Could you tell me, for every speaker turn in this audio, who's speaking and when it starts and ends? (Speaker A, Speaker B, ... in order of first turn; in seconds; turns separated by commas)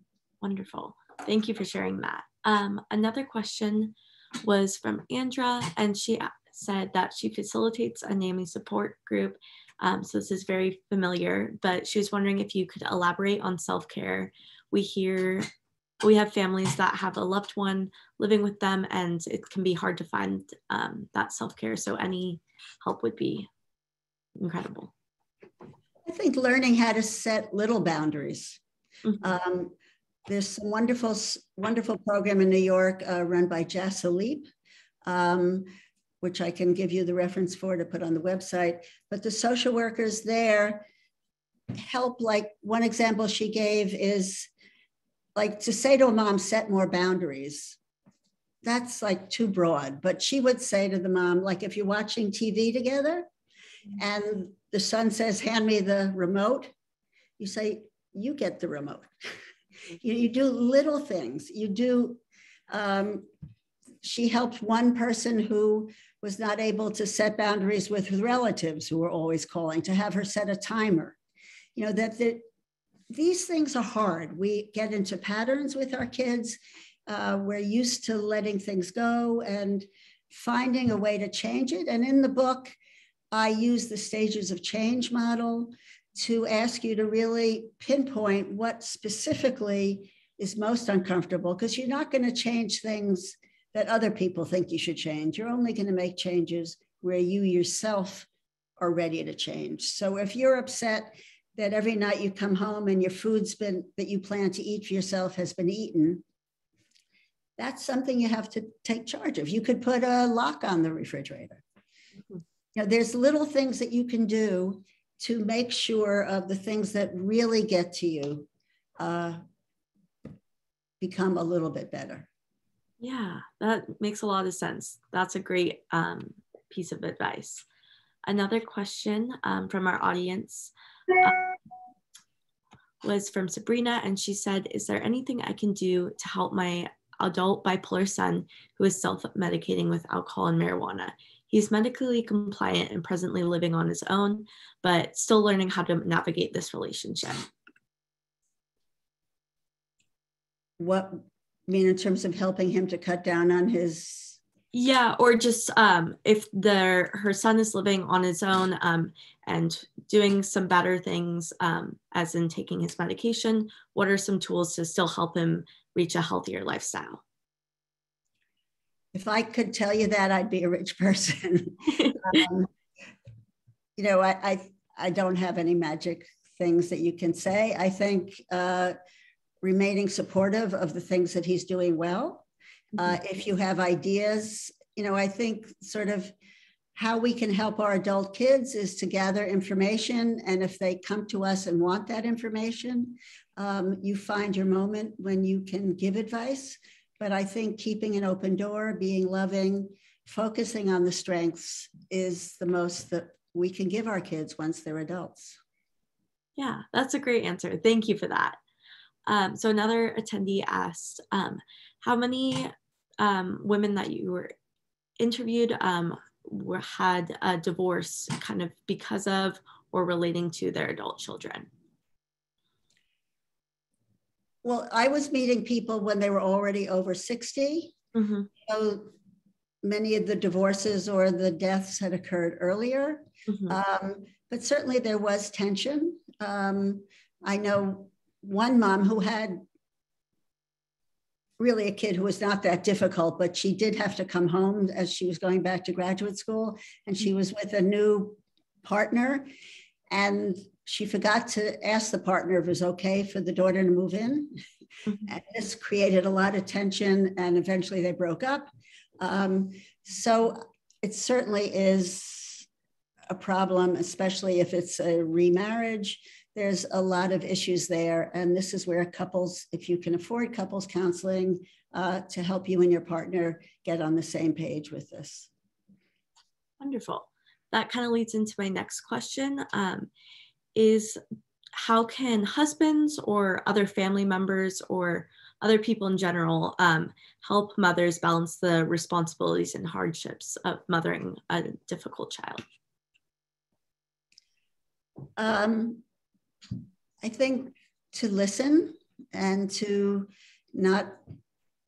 Speaker A: 0.4-15.5, Speaker A: 16.0-23.5, Speaker A: 24.4-24.9, Speaker B: 26.1-28.6, Speaker B: 29.2-29.7, Speaker B: 30.3-34.5, Speaker B: 35.0-35.7, Speaker B: 36.2-40.9, Speaker B: 41.7-44.5, Speaker B: 45.4-47.8, Speaker B: 48.6-53.3, Speaker B: 54.0-56.7, Speaker B: 57.4-59.1, Speaker B: 60.0-63.3, Speaker B: 64.0-71.2, Speaker B: 71.8-72.4, Speaker B: 73.1-82.7, Speaker B: 83.3-106.2, Speaker B: 107.6-111.6, Speaker B: 112.7-118.5, Speaker B: 119.0-119.4, Speaker B: 121.0-122.3, Speaker A: 123.0-127.6, Speaker A: 128.2-131.5, Speaker A: 133.0-147.5, Speaker B: 150.8-154.4, Speaker A: 154.7-167.2, Speaker B: 169.1-172.7, Speaker A: 172.0-172.3, Speaker B: 174.0-178.9, Speaker B: 179.6-186.3, Speaker B: 186.9-205.6, Speaker A: 206.6-208.6, Speaker A: 209.3-214.5, Speaker A: 215.2-221.7, Speaker B: 224.6-227.9, Speaker A: 228.1-228.5, Speaker B: 228.6-229.1, Speaker B: 229.8-239.6, Speaker A: 233.5-233.8, Speaker B: 241.6-249.5, Speaker B: 250.1-254.6, Speaker B: 255.2-262.7, Speaker B: 263.3-275.5, Speaker A: 276.8-280.1, Speaker A: 280.7-281.2, Speaker A: 281.8-292.6, Speaker B: 295.4-296.0, Speaker B: 297.2-301.2